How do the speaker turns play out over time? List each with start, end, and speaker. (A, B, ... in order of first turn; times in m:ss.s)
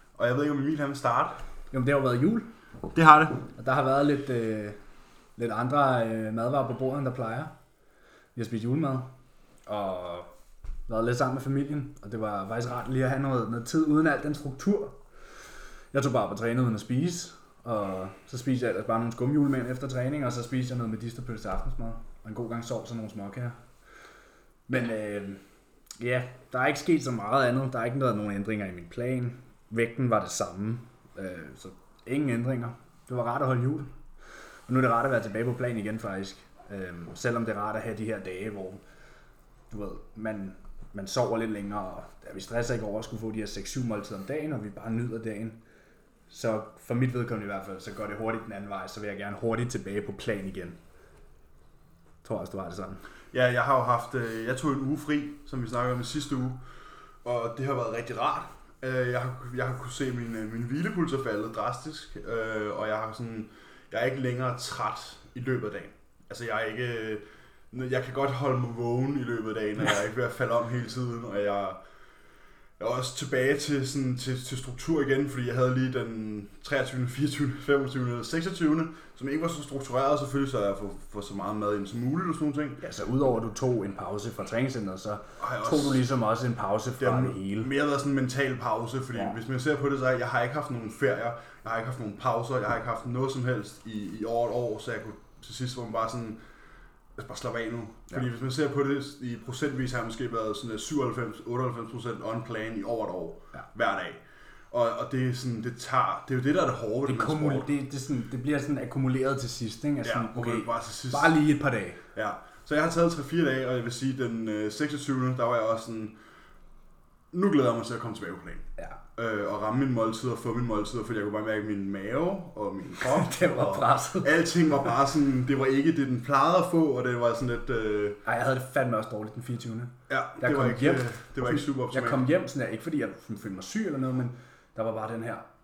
0:00.2-0:01.4 A
0:01.7-0:02.5 B
0:02.9-0:03.5 A
0:03.6-0:04.8 B
0:05.4-0:07.5 B
0:08.4-0:09.1 B
0:09.7-0:10.3 B
0:10.9-0:15.0 B
0:15.9-0:23.6 B
0:24.7-0:25.4 B
0:26.0-0:33.9 B
0:34.7-0:38.8 B
0:39.7-0:45.6 B
0:46.3-0:50.8 B
0:52.2-0:53.0 B
0:53.3-0:56.6 A
0:57.2-1:11.8 A
1:12.8-1:22.8 A
1:22.8-1:27.7 B
1:25.4-1:26.0 A
1:27.0-1:36.4 A
1:37.2-1:47.7 A
1:47.1-1:52.0 B
1:50.0-1:51.4 A
1:52.2-1:56.2 A
1:57.3-2:08.2 A
2:03.0-2:04.3 B
2:08.2-2:15.5 B
2:10.1-2:12.2 A